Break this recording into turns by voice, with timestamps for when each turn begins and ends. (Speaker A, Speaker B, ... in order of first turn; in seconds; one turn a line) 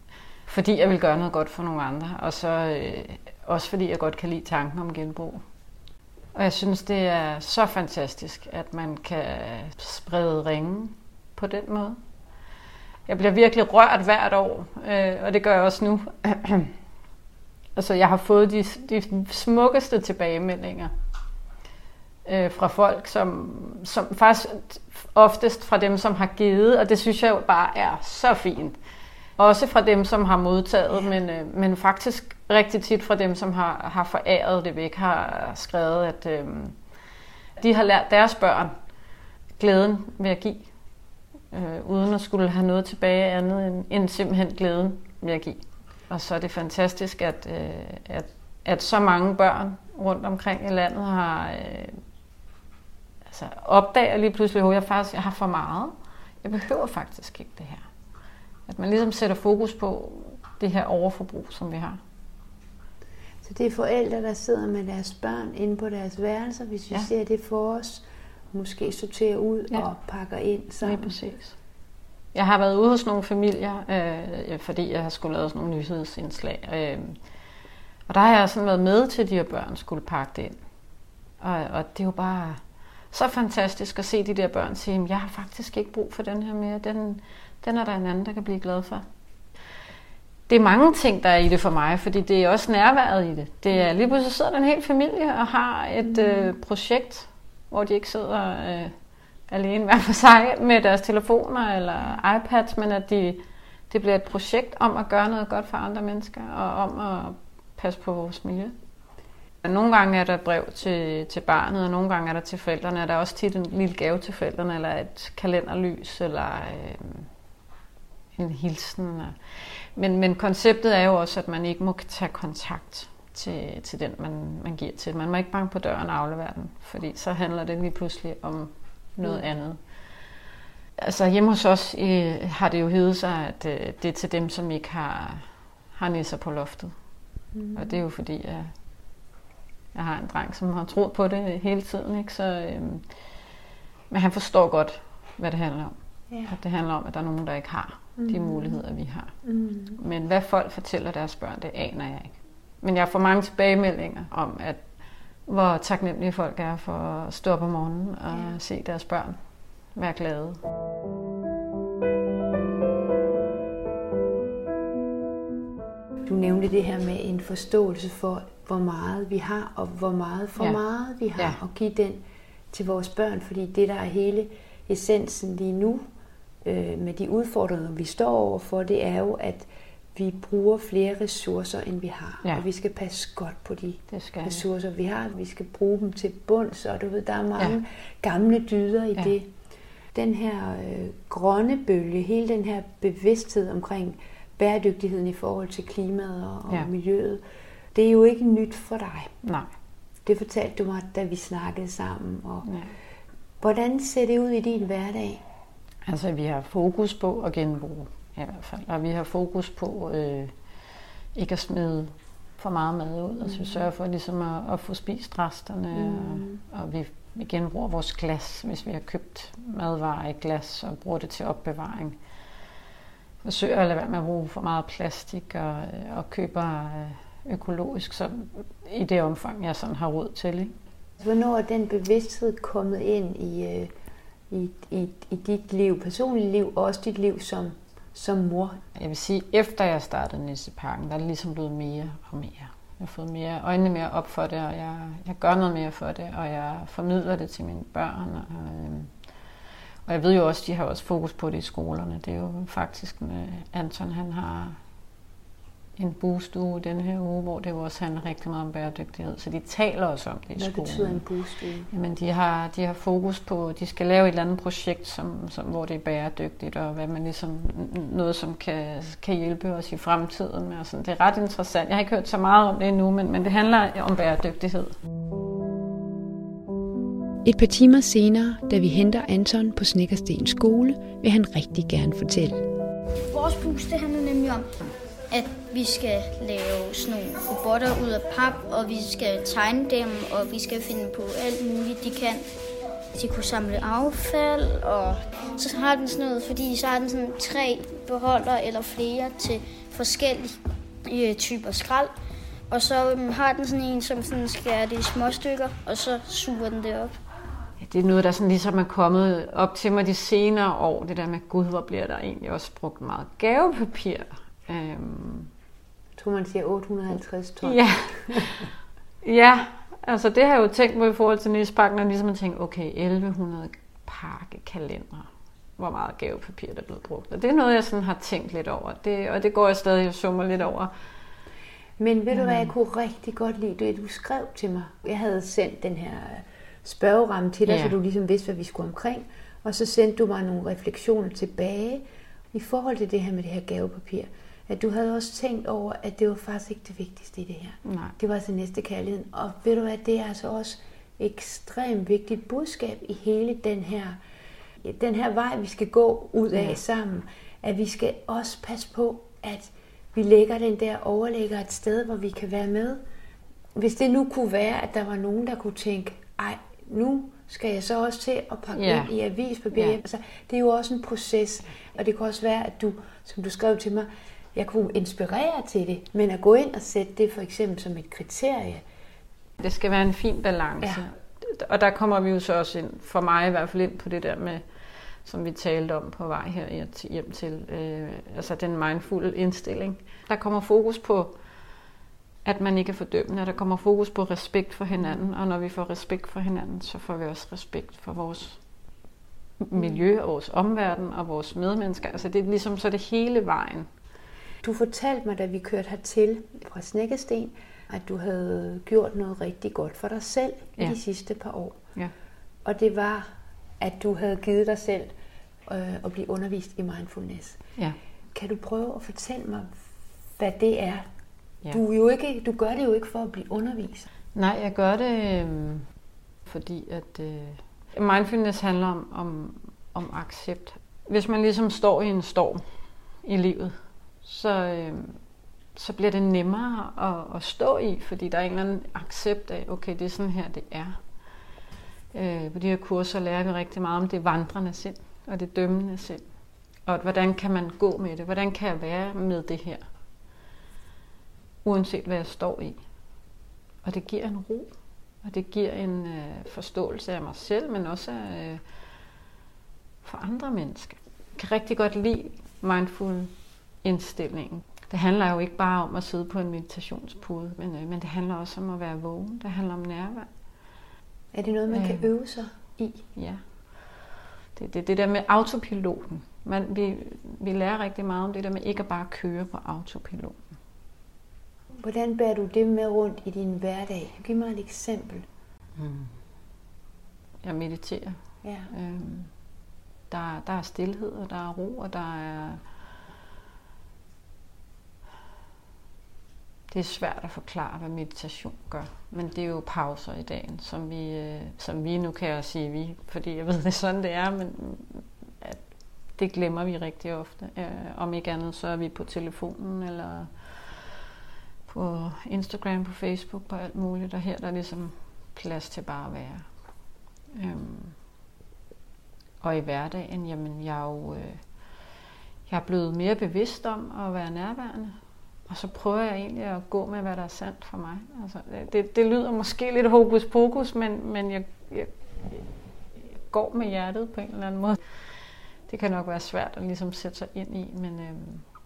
Speaker A: 0.5-5.4
Speaker A: 6.3-12.0
Speaker A: 13.1-16.7
Speaker A: 17.8-20.9
Speaker A: 22.2-28.8
Speaker A: 29.4-36.8
Speaker A: 37.6-38.7
Speaker A: 39.6-40.7
Speaker A: 41.5-52.0
Speaker A: 53.3-57.9
Speaker A: 58.7-62.0
Speaker B: 63.4-71.2
Speaker A: 70.8-71.6
Speaker A: 72.3-77.2
Speaker A: 78.1-80.6
Speaker A: 81.4-89.0
Speaker A: 90.5-98.9
Speaker B: 96.1-96.5
Speaker A: 99.5-108.8
Speaker A: 109.6-117.3
Speaker A: 118.3-129.8
Speaker A: 131.0-136.9
Speaker B: 137.6-138.0
Speaker A: 137.7-138.7
Speaker A: 139.9-143.1
Speaker A: 144.1-149.3
Speaker B: 148.2-148.8
Speaker B: 149.4-150.0
Speaker A: 149.9-154.9
Speaker A: 155.5-159.4
Speaker A: 159.9-160.6
Speaker B: 166.3-176.1
Speaker B: 176.6-189.5
Speaker A: 184.1-184.6
Speaker B: 190.1-197.4
Speaker B: 197.9-199.4
Speaker A: 199.4-199.7
Speaker B: 200.2-202.7
Speaker A: 202.7-202.9
Speaker B: 203.6-205.4
Speaker A: 206.1-210.6
Speaker A: 211.3-222.2
Speaker B: 213.5-213.8
Speaker B: 216.0-216.6
Speaker A: 223.4-230.8
Speaker B: 231.2-233.9
Speaker B: 234.5-238.8
Speaker A: 238.9-249.1
Speaker A: 250.1-254.8
Speaker A: 256.0-261.2
Speaker B: 260.6-261.9
Speaker A: 261.9-274.9
Speaker B: 277.4-282.7
Speaker C: 283.2-284.7
Speaker C: 285.3-292.5
Speaker C: 293.1-302.1
Speaker C: 302.7-307.2
Speaker A: 307.8-315.5
Speaker B: 316.1-318.7
Speaker A: 317.6-318.7
Speaker A: 319.2-330.9
Speaker B: 332.0-354.2
Speaker A: 332.3-332.7
Speaker A: 337.7-337.9
Speaker A: 347.9-348.1
Speaker B: 354.8-363.0
Speaker B: 363.8-378.8
Speaker A: 368.8-369.1
Speaker A: 379.6-384.6
Speaker A: 385.2-391.4
Speaker A: 392.4-398.6
Speaker A: 399.6-403.9
Speaker B: 404.6-411.8
Speaker B: 412.6-415.1
Speaker B: 415.7-417.6
Speaker B: 418.3-419.8
Speaker B: 420.4-421.1
Speaker B: 421.7-424.1
Speaker A: 424.4-425.9
Speaker A: 426.5-432.6
Speaker A: 433.2-435.2
Speaker A: 435.8-441.0
Speaker A: 442.1-446.3
Speaker A: 446.9-449.9
Speaker A: 451.6-452.8
Speaker A: 453.8-458.6
Speaker A: 460.0-463.3
Speaker A: 463.8-470.3
Speaker B: 471.3-473.1
Speaker A: 471.7-472.1
Speaker A: 473.1-473.4
Speaker A: 474.6-480.4
Speaker B: 481.8-485.3
Speaker A: 485.8-486.1
Speaker A: 487.4-489.3
Speaker B: 488.4-488.7
Speaker A: 490.1-492.6
Speaker A: 496.7-505.6
Speaker A: 506.1-510.9
Speaker A: 511.7-516.5
Speaker A: 517.3-518.0
Speaker A: 519.4-521.7
Speaker A: 522.5-525.0
Speaker A: 525.5-532.5
Speaker A: 533.2-535.1
Speaker A: 535.7-538.5